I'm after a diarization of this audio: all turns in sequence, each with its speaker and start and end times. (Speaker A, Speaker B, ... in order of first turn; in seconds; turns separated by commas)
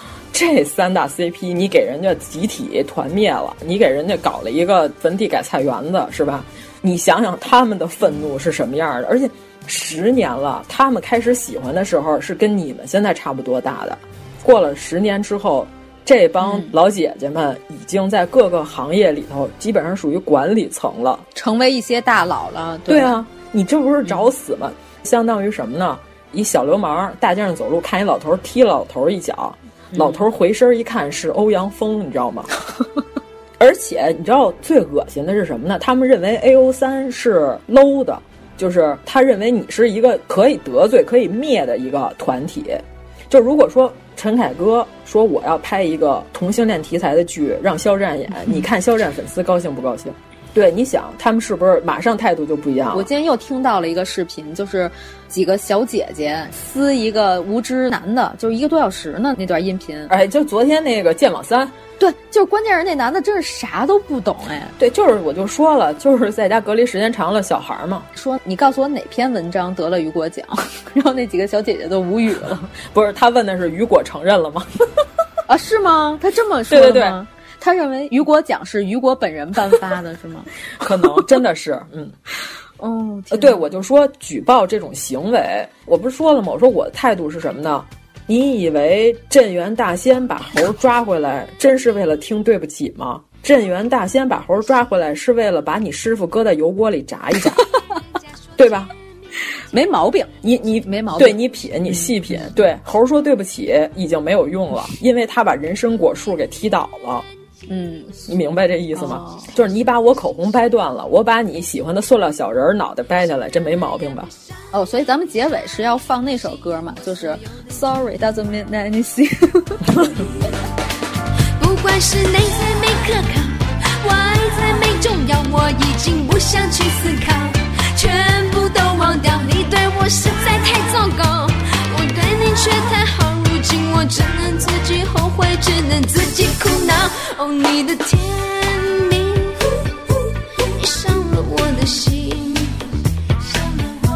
Speaker A: 0.3-21.2, Speaker B: 16.4-16.7, Speaker B: 21.4-23.2, Speaker A: 22.9-32.5, Speaker B: 29.9-30.2, Speaker A: 33.6-53.1, Speaker B: 52.9-60.1, Speaker A: 60.1-61.8, Speaker B: 62.0-64.8, Speaker A: 64.8-68.1, Speaker B: 68.2-72.7, Speaker A: 72.9-74.7, Speaker B: 75.5-80.5, Speaker A: 76.7-77.2, Speaker A: 80.8-82.2, Speaker B: 82.8-83.6, Speaker A: 83.3-97.7, Speaker A: 98.6-98.9, Speaker B: 99.7-100.3, Speaker A: 100.4-107.3, Speaker B: 100.9-102.5, Speaker B: 107.7-108.2, Speaker A: 108.3-114.3, Speaker B: 109.0-109.5, Speaker B: 114.7-120.0, Speaker C: 121.6-139.7, Speaker C: 140.8-142.8